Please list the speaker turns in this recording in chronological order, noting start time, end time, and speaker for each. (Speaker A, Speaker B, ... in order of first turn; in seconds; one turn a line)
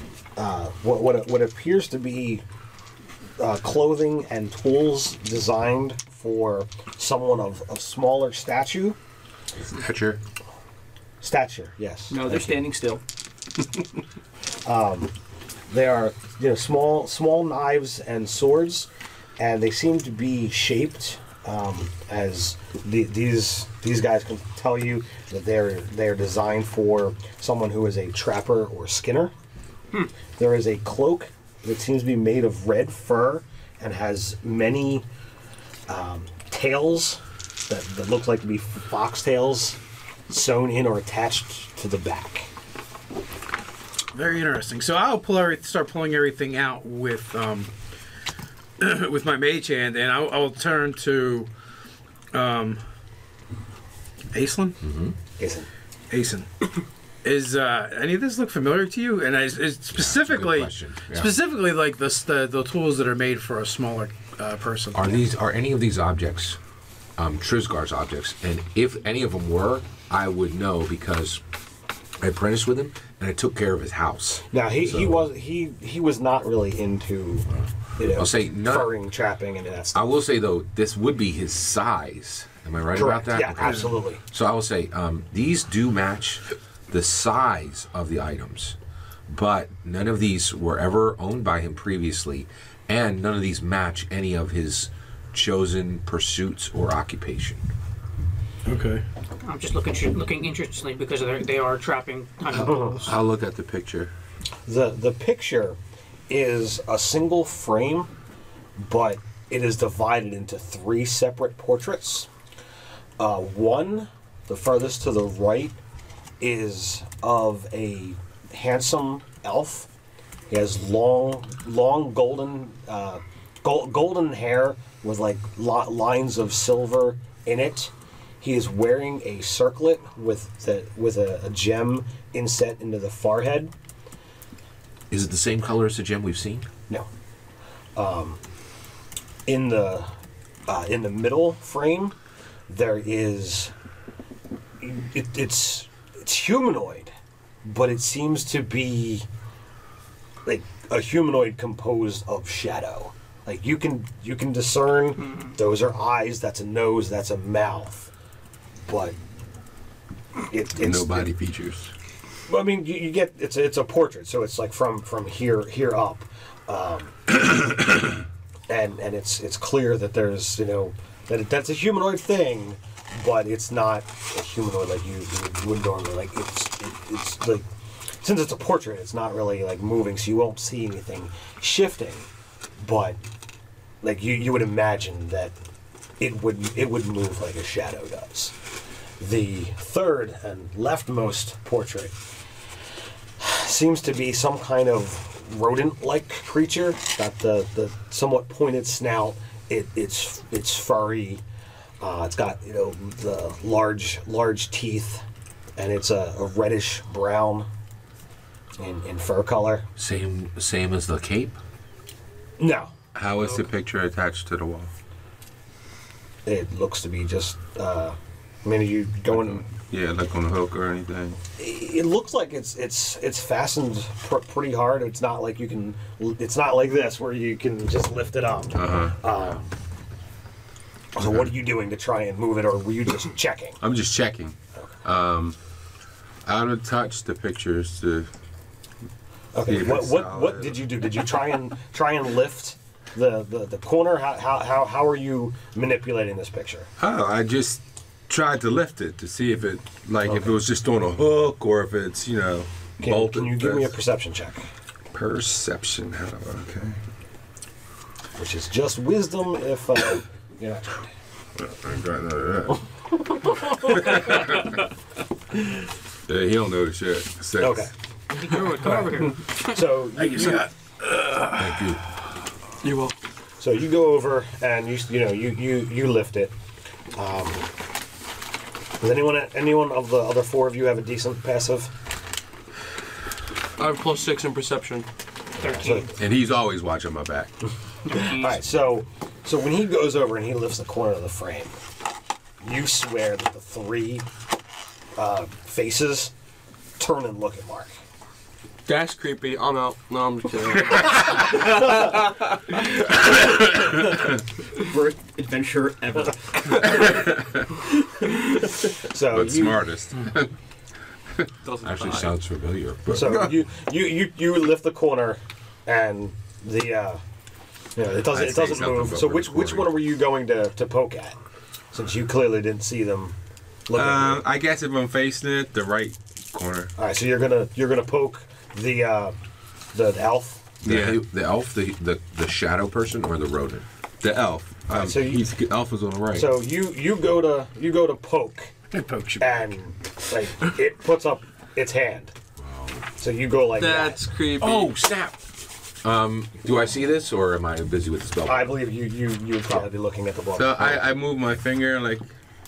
Speaker A: 0.4-2.4
Speaker A: 3.4-9.0
Speaker B: 9.7-10.2
Speaker A: 11.2-12.7
Speaker C: 12.1-13.0
Speaker A: 14.7-15.1
Speaker A: 15.7-29.3
Speaker A: 30.4-35.1
Speaker A: 35.9-39.8
Speaker A: 40.3-42.5
Speaker D: 44.1-47.7
Speaker D: 48.8-51.5
Speaker D: 52.3-52.8
Speaker D: 54.3-54.8
Speaker E: 54.8-55.2
Speaker A: 55.4-55.7
Speaker D: 56.1-56.7
Speaker D: 57.2-65.2
Speaker E: 60.0-61.4
Speaker E: 64.9-66.6
Speaker E: 67.2-71.4
Speaker E: 72.2-74.5
Speaker A: 74.5-80.1
Speaker E: 78.0-78.9
Speaker E: 79.9-88.8
Speaker A: 82.9-84.2
Speaker D: 83.6-83.9
Speaker E: 89.3-97.6
Speaker D: 98.7-99.0
Speaker F: 99.4-103.0
Speaker B: 102.5-104.1
Speaker A: 102.6-103.1
Speaker A: 104.7-105.8
Speaker A: 106.3-108.1
Speaker A: 108.8-112.3
Speaker A: 113.2-115.8
Speaker A: 116.4-119.9
Speaker A: 120.5-133.7
Speaker E: 135.1-136.7
Speaker A: 138.0-138.4
Speaker A: 139.5-140.1
Speaker A: 140.7-142.2
Speaker A: 142.7-143.7
Speaker A: 144.8-147.1
Speaker A: 147.7-149.3
Speaker A: 150.4-158.1
Speaker A: 158.9-159.2
Speaker A: 160.5-161.3
Speaker B: 160.8-161.9
Speaker A: 162.5-167.8
Speaker A: 168.7-177.7
Speaker A: 178.2-182.3
Speaker A: 182.8-183.2
Speaker A: 184.0-185.6
Speaker A: 186.2-188.5
Speaker A: 189.2-192.2
Speaker A: 193.4-201.4
Speaker A: 202.0-205.2
Speaker A: 205.8-207.7
Speaker A: 208.8-209.9
Speaker E: 210.0-211.6
Speaker A: 212.6-212.9
Speaker B: 213.1-214.9
Speaker A: 216.5-219.7
Speaker B: 219.3-221.4
Speaker A: 221.6-229.7
Speaker B: 228.8-229.2
Speaker A: 231.2-233.8
Speaker B: 231.2-231.5
Speaker B: 233.8-235.6
Speaker B: 236.4-238.3
Speaker A: 239.5-246.9
Speaker B: 239.7-240.8
Speaker B: 247.0-253.9
Speaker A: 250.2-250.6
Speaker A: 253.0-254.6
Speaker B: 255.1-257.0
Speaker A: 258.4-261.0
Speaker B: 261.6-262.8
Speaker B: 263.9-264.7
Speaker B: 266.3-267.9
Speaker A: 267.6-267.9
Speaker F: 268.4-269.8
Speaker A: 268.6-270.7
Speaker D: 270.2-272.0
Speaker E: 271.6-272.0
Speaker G: 272.8-273.2
Speaker A: 273.6-276.5
Speaker A: 277.1-277.7
Speaker A: 279.0-281.9
Speaker G: 283.8-285.1
Speaker A: 285.6-286.1
Speaker F: 285.6-286.1
Speaker B: 286.1-287.5
Speaker A: 288.1-291.8
Speaker F: 288.1-288.6
Speaker A: 292.6-294.3
Speaker A: 295.2-296.3
Speaker A: 297.0-297.9
Speaker G: 298.9-302.0
Speaker C: 304.8-307.0
Speaker B: 307.0-307.6
Speaker A: 309.0-309.9
Speaker B: 309.3-310.5
Speaker G: 311.6-312.4
Speaker E: 311.8-313.5
Speaker A: 313.1-317.2
Speaker B: 313.2-313.6
Speaker A: 318.0-321.4
Speaker B: 318.3-319.9
Speaker E: 318.4-319.1
Speaker A: 321.9-323.4
Speaker A: 323.9-324.4
Speaker B: 323.9-326.9
Speaker A: 327.0-329.4
Speaker A: 329.9-330.8
Speaker B: 330.8-331.2
Speaker E: 330.9-333.9
Speaker B: 334.2-336.5
Speaker A: 334.9-335.5
Speaker A: 336.3-338.7
Speaker D: 338.9-339.7
Speaker A: 339.4-342.3
Speaker E: 342.6-343.0
Speaker A: 343.2-344.3
Speaker G: 343.8-345.0
Speaker E: 344.6-345.4
Speaker E: 346.0-348.8
Speaker A: 348.5-351.2
Speaker B: 350.6-352.3